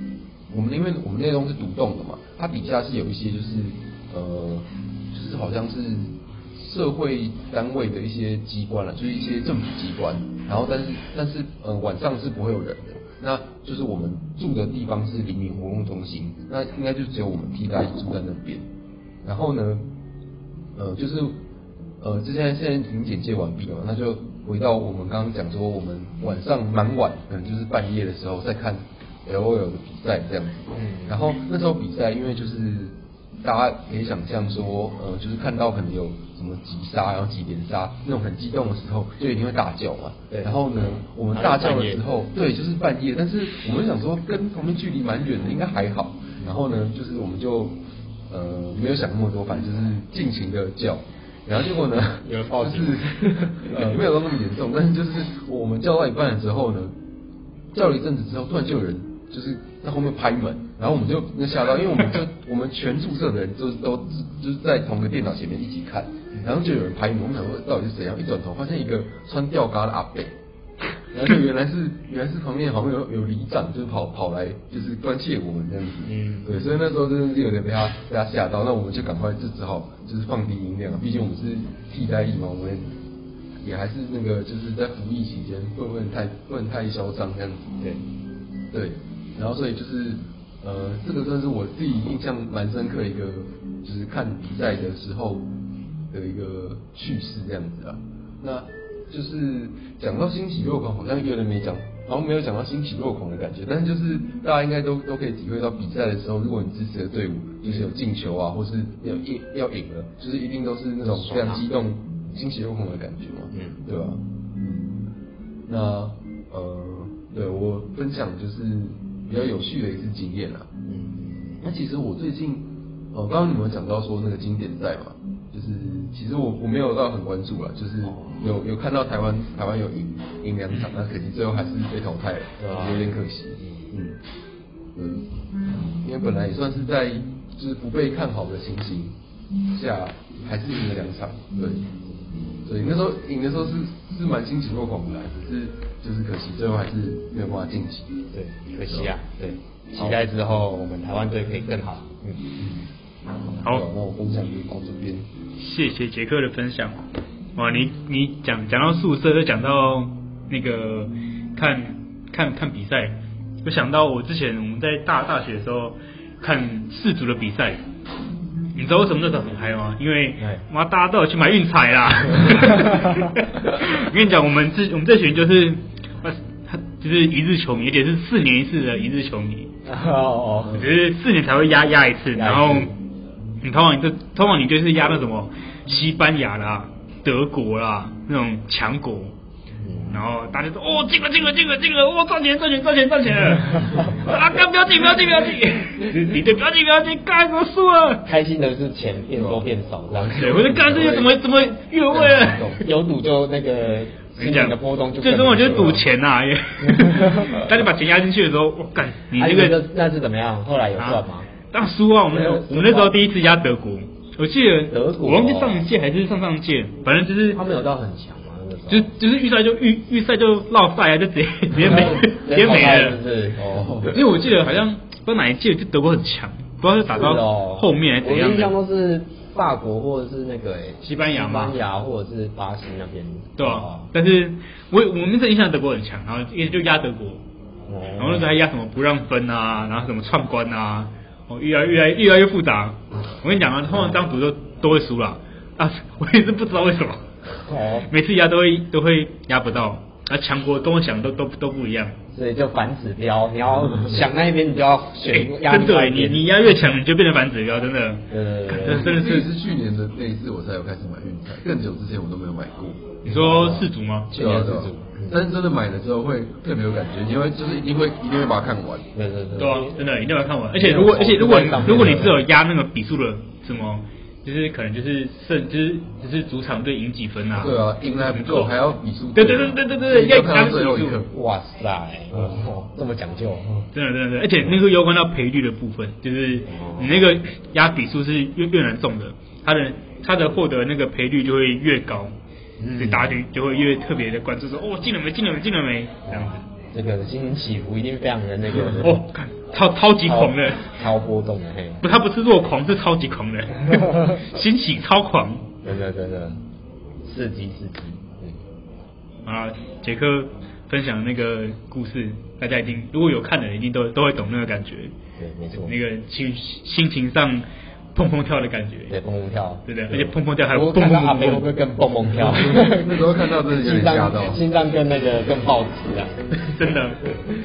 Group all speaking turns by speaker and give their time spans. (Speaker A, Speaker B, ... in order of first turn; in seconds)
Speaker A: 0.5-18.6, 19.2-19.9, 20.8-21.4, 22.0-47.8, 48.3-56.9, 57.7-70.3, 71.1-82.8, 83.6-87.7, 88.7-95.5, 96.1-115.0, 115.7-120.7, 121.6-134.2, 134.9-135.3, 135.9-139.2, 139.7-141.8, 142.7-148.2, 148.8-149.1, 149.9-150.2, 153.6-155.3, 199.4-199.7, 200.7-201.4, 202.1-202.8, 221.8-222.2, 223.7-224.2, 258.8-263.2, 264.3-269.1, 277.6-281.3, 282.3-282.6, 322.6-324.6
Speaker B: 30.7-31.2, 41.3-42.0, 52.2-54.0, 76.0-76.5, 111.0-111.6, 113.5-113.8, 120.9-121.6, 128.0-128.5, 132.6-133.9, 148.3-152.4, 179.8-180.9, 182.3-182.9, 189.8-190.2, 198.2-201.1, 202.8-206.1, 206.8-207.6, 209.3-211.5, 212.3-213.2, 214.9-215.9, 217.5-219.1, 221.8-224.2, 227.1-234.1, 237.9-238.6, 243.9-244.2, 247.5-248.1, 252.3-256.9, 258.3-259.1, 263.2-265.4, 269.1-269.9, 270.7-272.4, 281.3-283.9, 286.7-287.3, 292.8-293.4, 296.3-299.2, 300.2-302.0, 305.8-306.6, 307.2-308.6, 315.4-315.9, 319.1-326.4
Speaker C: 155.6-157.1, 157.6-167.8, 168.7-179.7, 180.7-182.9, 183.6-189.3, 190.1-198.2, 200.1-202.8, 204.4-209.8, 211.0-217.6, 218.9-223.2, 224.1-228.7, 231.0-231.8, 233.6-237.4, 238.2-247.2, 248.1-252.2, 255.3-259.5, 263.2-264.3, 269.6-278.7, 279.3-281.3, 283.9-292.3, 292.9-296.6, 298.7-300.8, 302.0-305.7, 309.4-315.1, 315.8-319.1, 319.9-321.7, 326.7-327.2